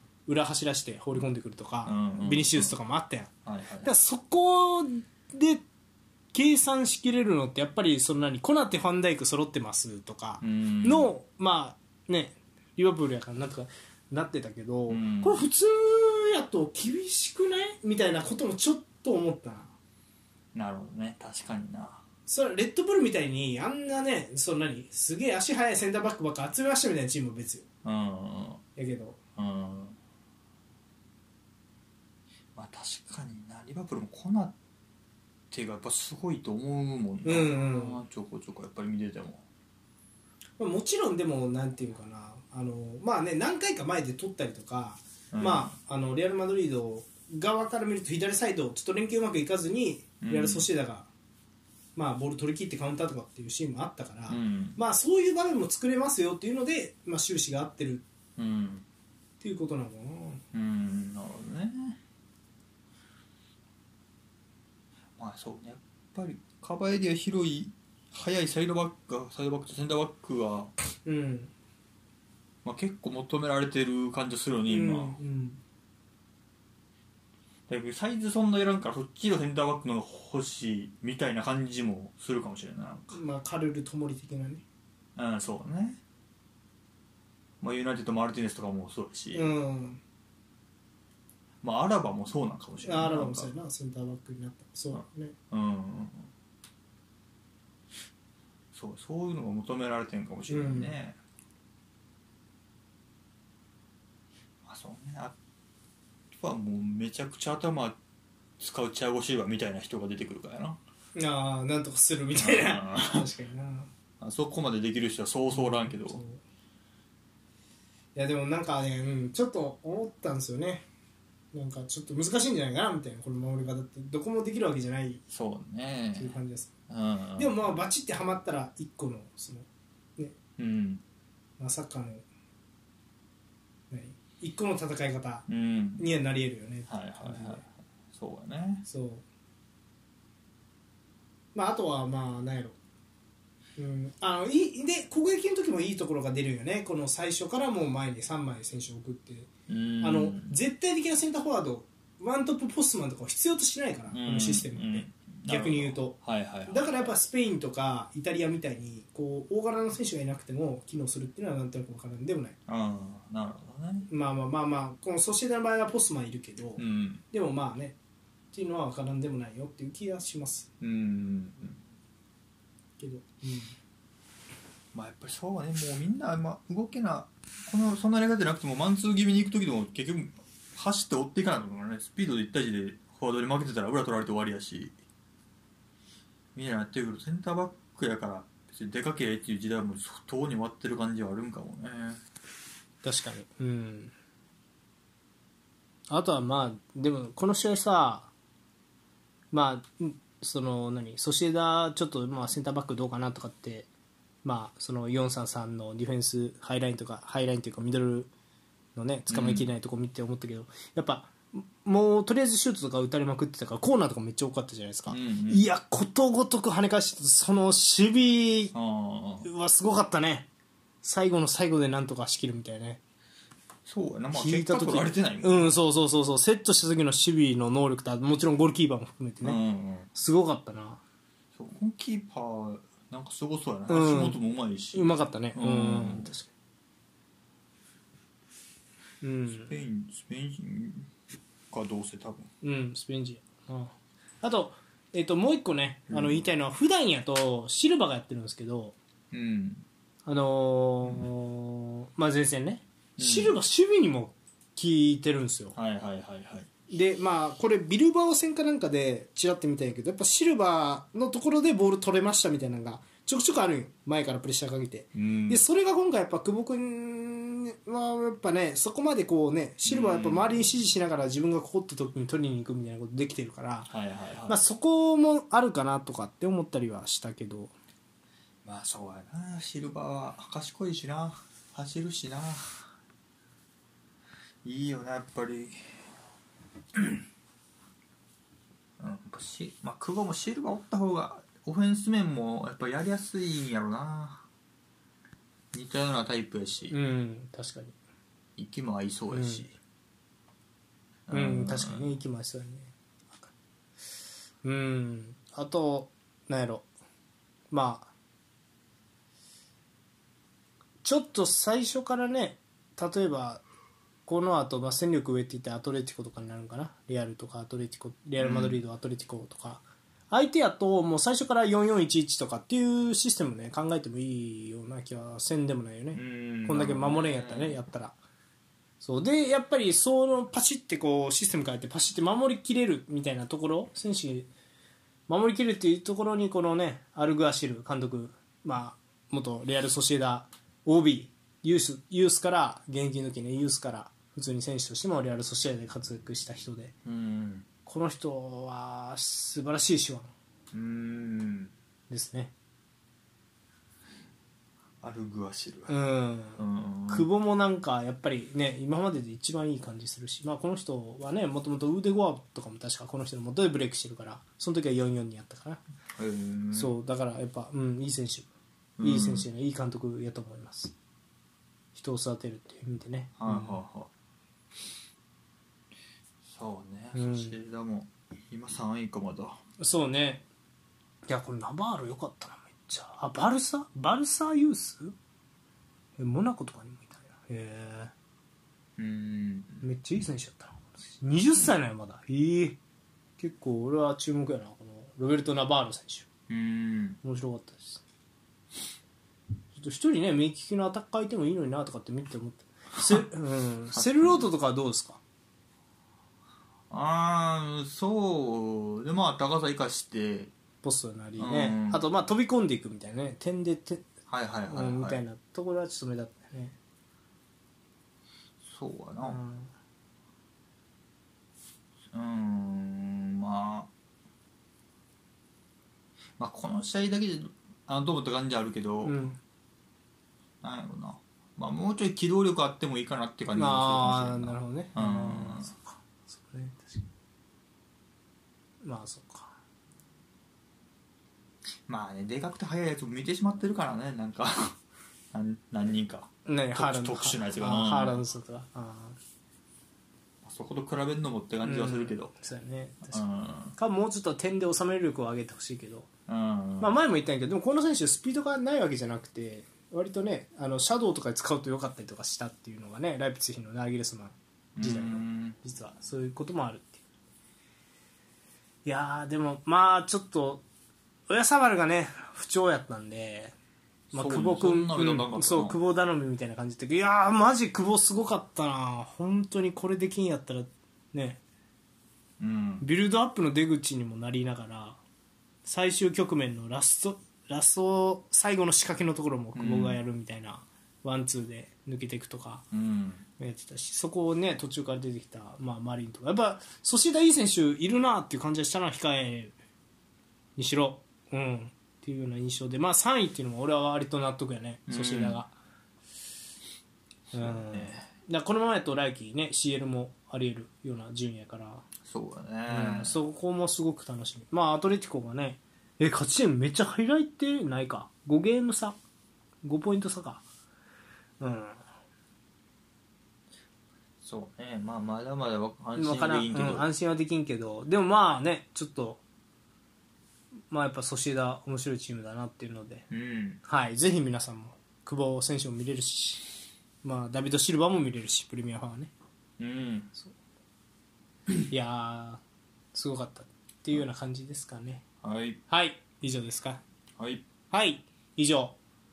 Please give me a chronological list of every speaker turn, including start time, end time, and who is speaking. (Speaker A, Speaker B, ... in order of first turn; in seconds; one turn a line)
Speaker A: 0.3-3.3
Speaker B: 1.9-2.8
Speaker B: 3.5-3.9
Speaker A: 3.8-5.6
Speaker A: 6.3-19.7
Speaker B: 10.4-11.1
Speaker B: 14.9-15.4
Speaker B: 20.5-22.0
Speaker A: 22.3-27.6
Speaker B: 27.8-28.6
Speaker A: 28.8-29.2
Speaker B: 29.4-30.0
Speaker B: 32.5-34.6
Speaker B: 35.5-39.4
Speaker A: 37.2-38.0
Speaker A: 40.6-51.1
Speaker B: 45.3-45.8
Speaker B: 50.2-50.6
Speaker A: 52.0-58.0
Speaker B: 54.3-54.8
Speaker B: 58.4-58.9
Speaker A: 59.4-60.4
Speaker B: 60.5-62.0
Speaker B: 65.2-70.7
Speaker A: 71.0-71.5
Speaker B: 72.6-75.2
Speaker A: 74.7-75.6
Speaker B: 77.7-83.2
Speaker A: 83.1-84.6
Speaker B: 85.2-86.0
Speaker B: 87.6-89.5
Speaker A: 89.3-90.0
Speaker B: 91.6-93.5
Speaker A: 92.8-95.3
Speaker B: 94.9-96.3
Speaker B: 98.7-101.2
Speaker A: 100.5-101.0
Speaker B: 104.7-105.4
Speaker B: 106.3-108.0
Speaker B: 108.6-110.8
Speaker A: 111.2-113.9
Speaker B: 112.3-113.3
Speaker B: 114.2-116.2
Speaker A: 115.5-116.4
Speaker A: 118.2-120.9
Speaker A: 121.5-125.2
Speaker B: 125.3-126.4
Speaker A: 126.2-126.7
Speaker B: 126.9-127.6
Speaker A: 127.4-130.3
Speaker B: 130.6-131.0
Speaker A: 131.6-132.2
Speaker A: 133.9-135.4
Speaker B: 135.5-136.0
Speaker A: 136.0-137.6
Speaker B: 136.9-138.8
Speaker A: 138.8-139.2
Speaker A: 141.5-142.8
Speaker A: 143.8-149.5
Speaker B: 149.7-150.6
Speaker A: 150.0-156.2
Speaker B: 154.1-157.1
Speaker A: 156.7-162.6
Speaker B: 162.7-164.1
Speaker A: 164.1-168.0
Speaker B: 166.8-167.2
Speaker A: 168.5-170.7
Speaker B: 170.8-171.8
Speaker A: 173.0-173.8
Speaker B: 174.9-184.9
Speaker B: 186.6-192.2
Speaker A: 193.0-194.1
Speaker A: 196.1-198.3
Speaker A: 199.5-203.9
Speaker A: 204.4-208.3
Speaker A: 208.9-218.7
Speaker B: 209.3-209.7
Speaker B: 215.1-215.7
Speaker B: 218.7-219.5
Speaker A: 219.4-220.5
Speaker A: 221.0-223.0
Speaker B: 223.9-225.8
Speaker A: 224.3-229.6
Speaker B: 229.4-230.1
Speaker A: 230.1-231.0
Speaker B: 231.6-236.3
Speaker A: 233.9-234.4
Speaker A: 234.9-236.5
Speaker A: 239.2-239.7
Speaker B: 239.5-241.1
Speaker B: 241.7-242.5
Speaker A: 242.6-249.0
Speaker B: 246.1-246.5
Speaker B: 249.3-249.8
Speaker A: 250.3-255.8
Speaker B: 253.2-253.6
Speaker B: 255.8-256.7
Speaker A: 256.9-273.9
Speaker B: 265.1-265.6
Speaker B: 269.9-270.7
Speaker B: 273.9-274.6
Speaker A: 274.5-277.7
Speaker B: 278.6-282.9
Speaker B: 284.6-285.8
Speaker B: 289.0-294.4
Speaker B: 295.7-296.9
Speaker A: 296.9-298.0
Speaker B: 298.6-299.7
Speaker A: 299.3-299.7
Speaker B: 301.3-302.1
Speaker A: 301.3-302.9
Speaker A: 304.6-306.9
Speaker A: 307.7-308.1
Speaker A: 311.0-313.6
Speaker A: 314.3-328.2
Speaker B: 318.4-318.8
Speaker B: 326.1-327.8
Speaker A: 329.0-334.5
Speaker A: 335.3-346.9
Speaker B: 347.1-347.7
Speaker A: 347.9-350.3
Speaker B: 350.7-351.7
Speaker A: 352.1-352.5
Speaker B: 355.0-355.9
Speaker A: 355.9-365.8
Speaker B: 356.6-357.3
Speaker B: 366.2-366.9
Speaker A: 366.7-368.5
Speaker B: 369.0-369.5
Speaker A: 369.0-370.9
Speaker A: 371.9-373.8
Speaker B: 373.4-374.1
Speaker B: 376.4-379.6
Speaker A: 377.1-377.6
Speaker A: 379.8-380.4
Speaker A: 381.3-385.1
Speaker A: 386.2-388.1
Speaker B: 389.0-389.8
Speaker A: 389.8-392.8
Speaker A: 393.4-396.3
Speaker B: 396.5-397.2
Speaker A: 397.2-398.0
Speaker A: 399.7-405.2
Speaker B: 403.9-404.5
Speaker B: 406.9-410.5
Speaker A: 410.8-414.1
Speaker B: 411.4-412.1
Speaker B: 414.3-415.2
Speaker A: 414.7-416.8
Speaker B: 418.6-419.4
Speaker A: 419.2-419.7
Speaker B: 422.1-423.9
Speaker B: 426.4-429.2
Speaker A: 429.0-429.4
Speaker B: 430.6-435.7
Speaker A: 433.6-437.1
Speaker A: 438.8-439.6
Speaker B: 441.9-444.8
Speaker B: 445.3-448.2
Speaker A: 446.5-449.2
Speaker B: 450.4-452.3
Speaker A: 451.6-453.2
Speaker B: 453.1-453.8
Speaker A: 453.8-456.1
Speaker B: 456.3-456.9
Speaker A: 456.8-467.0
Speaker B: 464.8-465.6
Speaker A: 468.9-470.6
Speaker A: 471.3-473.6
Speaker B: 474.1-475.8
Speaker A: 474.1-481.4
Speaker B: 482.4-482.9
Speaker A: 482.8-485.0
Speaker A: 485.6-492.7
Speaker B: 489.6-490.0
Speaker B: 492.7-493.3
Speaker A: 493.4-499.6
Speaker A: 500.6-505.5
Speaker B: 504.9-505.4
Speaker B: 507.3-508.1
Speaker A: 507.3-511.9
Speaker B: 512.0-513.2
Speaker A: 512.7-519.0
Speaker A: 519.6-520.4
Speaker A: 521.4-521.8
Speaker B: 524.2-526.9
Speaker A: 526.0-529.2
Speaker A: 530.7-533.1
Speaker B: 533.1-533.6
Speaker A: 533.6-539.1
Speaker B: 539.6-540.1
Speaker A: 541.7-542.4
Speaker A: 542.9-545.0
Speaker B: 545.2-545.6
Speaker A: 545.7-546.8
Speaker B: 547.2-547.5
Speaker A: 547.7-548.8